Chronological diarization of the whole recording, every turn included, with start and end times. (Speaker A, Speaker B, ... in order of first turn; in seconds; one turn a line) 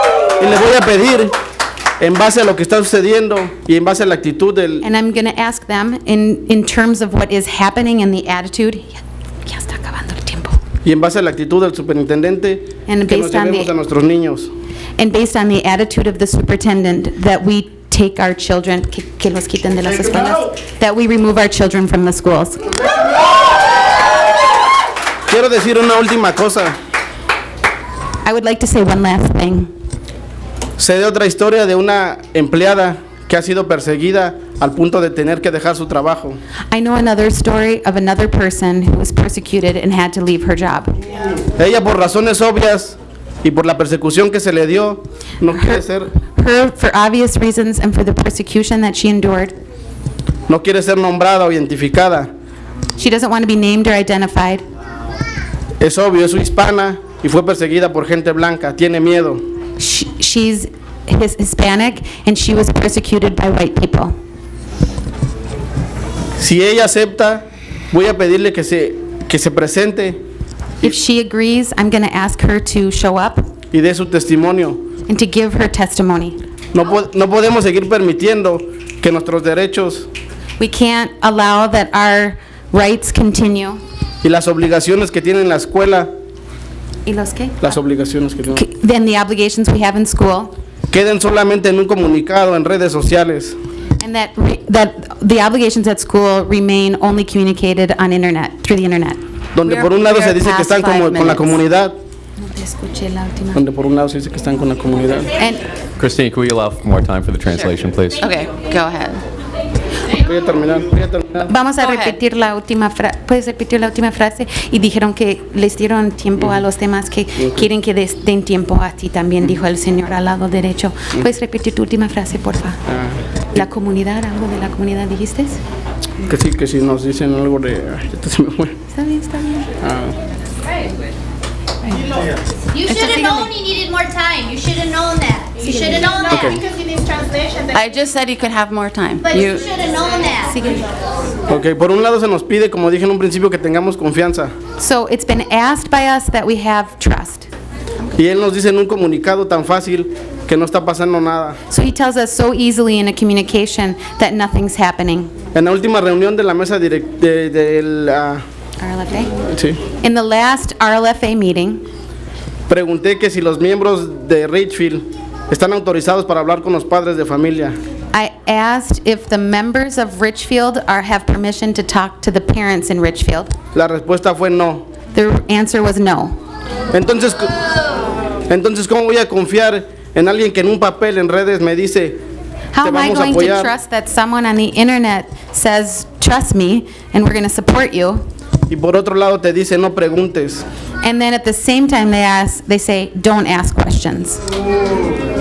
Speaker A: 0.4-1.3
Speaker A: 2.0-4.8
Speaker B: 4.8-10.6
Speaker A: 10.8-14.5
Speaker B: 12.9-13.7
Speaker B: 15.0-22.7
Speaker A: 25.3-26.8
Speaker B: 28.2-29.7
Speaker A: 30.8-36.4
Speaker B: 36.7-40.9
Speaker A: 41.5-46.1
Speaker B: 45.5-49.5
Speaker A: 50.5-52.3
Speaker B: 53.0-54.6
Speaker A: 55.8-59.4
Speaker B: 59.8-64.1
Speaker A: 66.4-70.2
Speaker B: 70.8-73.4
Speaker A: 73.7-74.8
Speaker B: 75.1-76.4
Speaker A: 76.7-80.1
Speaker B: 80.6-83.8
Speaker A: 84.2-86.1
Speaker B: 87.0-87.6
Speaker A: 87.6-88.6
Speaker B: 88.5-90.5
Speaker A: 90.9-93.6
Speaker B: 94.0-101.6
Speaker A: 99.5-101.9
Speaker B: 102.4-103.6
Speaker A: 103.5-105.3
Speaker B: 105.4-105.6
Speaker C: 106.0-108.2
Speaker D: 107.5-109.2
Speaker A: 110.1-111.5
Speaker B: 111.4-122.8
Speaker D: 111.8-112.2
Speaker A: 117.4-117.7
Speaker A: 122.9-123.2
Speaker B: 123.5-125.6
Speaker A: 126.3-128.8
Speaker B: 128.9-129.7
Speaker A: 129.8-130.2
Speaker E: 132.7-137.7
Speaker B: 132.8-133.5
Speaker B: 135.7-136.1
Speaker A: 136.3-136.6
Speaker D: 137.7-139.8
Speaker E: 139.3-140.6
Speaker B: 140.5-140.9
Speaker A: 141.5-144.5
Speaker B: 144.8-147.5
Speaker A: 148.2-151.6
Speaker B: 151.7-155.3
Speaker A: 155.5-158.4
Speaker B: 158.8-159.3
Speaker A: 159.4-159.8
Speaker B: 160.0-161.8
Speaker A: 162.7-167.8
Speaker B: 168.1-173.5
Speaker A: 173.7-174.8
Speaker B: 175.1-176.3
Speaker A: 176.9-177.5
Speaker A: 178.5-182.2
Speaker B: 182.7-188.2
Speaker A: 182.8-183.7
Speaker A: 188.7-190.6
Speaker B: 191.0-194.4